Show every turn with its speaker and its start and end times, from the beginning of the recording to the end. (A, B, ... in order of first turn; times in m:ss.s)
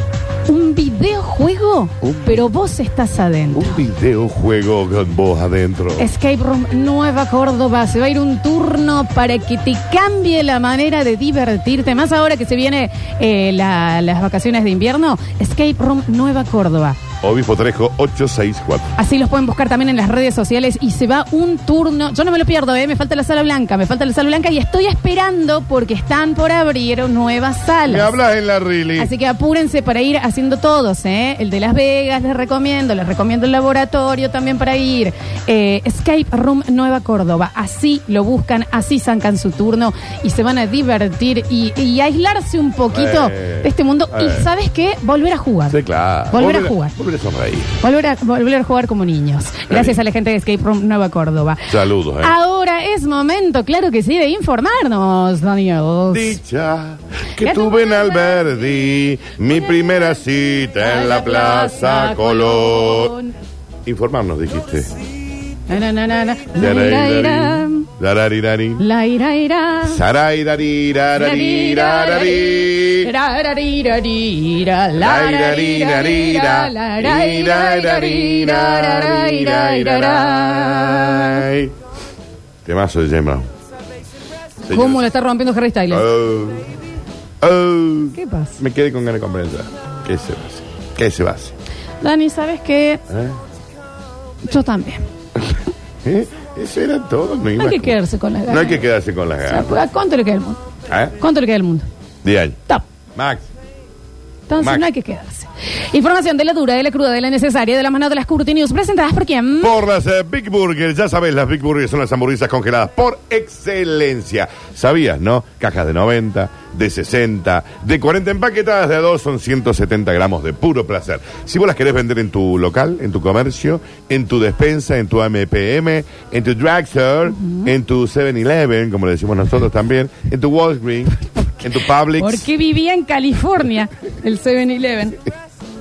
0:00.4-0:03.8 A
0:02.0-0:02.4 B
0:03.5-0:06.1 B
0:06.0-0:17.0 A
0:17.2-0:18.9 B
0:19.0-0:28.1 A
0:27.8-0:29.1 B
0:29.0-0:45.8 A
0:42.9-0:44.5 B
0:45.7-0:47.7 B
0:46.3-0:46.9 A
0:47.8-0:56.4 A
0:49.7-0:50.0 B
0:51.7-0:52.4 B
0:56.1-1:03.1 B
0:57.4-0:58.5 A
1:00.8-1:03.3 A
1:03.8-1:04.9 B
1:05.7-1:07.9 A
1:06.6-1:08.8 B
1:08.8-1:10.0 A
1:09.8-1:13.1 B
1:11.1-1:21.5 A
1:15.0-1:21.7 B
1:22.6-1:23.5 B
1:24.6-1:25.0 B
1:24.7-1:26.0 A
1:25.9-1:26.7 B
1:27.4-1:31.5 B
1:28.1-1:28.6 A
1:32.0-1:33.0 A
1:33.1-1:33.4 B
1:34.4-1:35.0 A
1:36.0-1:39.8 B
1:37.6-1:38.8 A
1:39.5-1:40.6 A
1:40.9-1:41.2 B
1:41.2-1:41.9 A
1:42.2-1:42.6 B
1:43.2-1:43.5 B
1:44.5-1:49.8 A
1:44.6-1:44.8 B
1:49.6-2:12.5 B
2:07.3-2:07.7 A
2:12.2-2:15.2 A